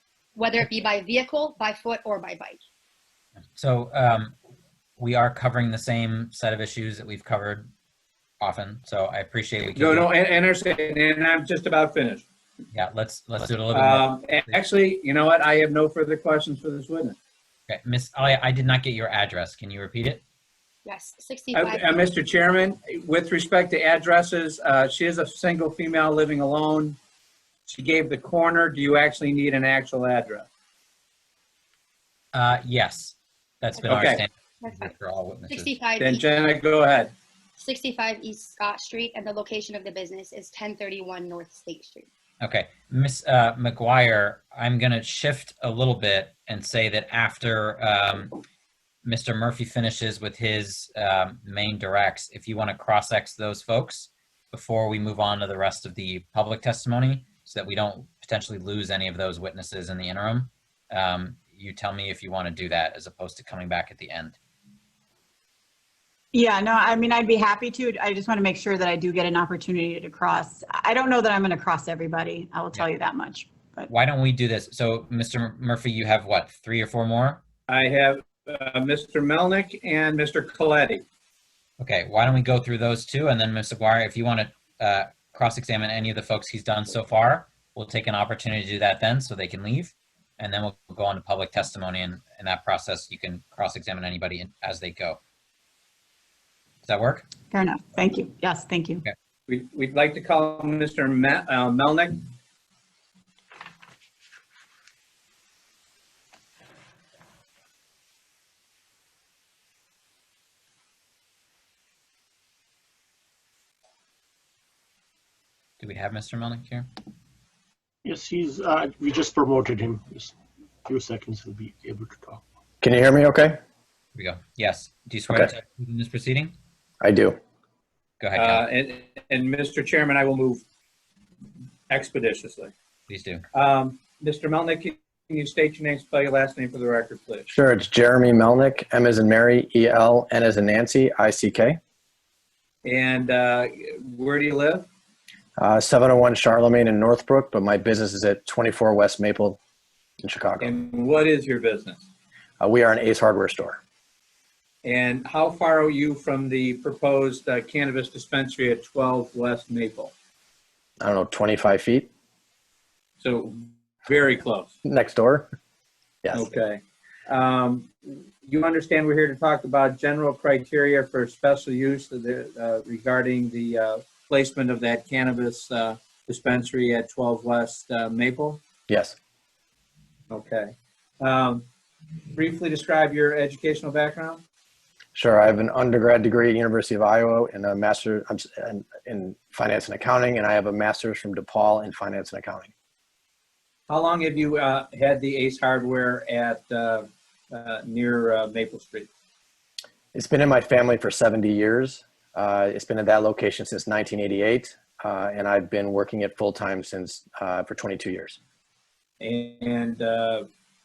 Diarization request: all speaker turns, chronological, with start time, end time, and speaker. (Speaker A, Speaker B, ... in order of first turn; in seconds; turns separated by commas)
Speaker A: 0.4-2.6, Speaker B: 3.5-4.3, Speaker B: 5.0-7.7, Speaker B: 8.4-10.1, Speaker C: 9.8-12.2, Speaker B: 12.7-14.3, Speaker C: 13.7-17.2, Speaker B: 17.7-20.2, Speaker A: 20.9-22.0, Speaker C: 21.5-27.0, Speaker C: 27.7-30.5, Speaker B: 32.3-35.7, Speaker C: 33.9-34.2, Speaker A: 34.6-35.0, Speaker A: 35.5-36.3, Speaker C: 36.0-37.1, Speaker A: 37.6-42.1, Speaker B: 42.4-48.4, Speaker B: 49.0-64.4, Speaker D: 66.3-73.9, Speaker B: 73.9-77.4, Speaker C: 77.7-81.0, Speaker B: 81.8-95.2, Speaker B: 96.8-97.3, Speaker D: 97.5-99.0, Speaker C: 99.5-102.2, Speaker B: 115.8-116.9, Speaker E: 118.0-122.4, Speaker F: 122.8-123.6, Speaker B: 124.2-126.5, Speaker F: 127.0-127.4, Speaker B: 128.2-128.6, Speaker C: 128.3-130.6, Speaker C: 131.9-132.7, Speaker B: 133.1-133.4, Speaker C: 133.5-137.5, Speaker F: 137.5-141.8, Speaker C: 142.8-144.9, Speaker F: 145.6-149.6, Speaker F: 150.2-150.8, Speaker C: 150.6-152.1, Speaker F: 152.6-153.8, Speaker C: 154.8-160.1, Speaker F: 161.0-162.1, Speaker C: 163.2-164.8, Speaker F: 164.8-165.5, Speaker F: 166.2-166.5, Speaker C: 166.3-178.6, Speaker F: 178.9-179.2, Speaker C: 180.3-181.7, Speaker C: 182.3-184.4, Speaker F: 185.2-192.7, Speaker C: 193.9-199.1, Speaker F: 200.1-208.4, Speaker C: 209.2-210.5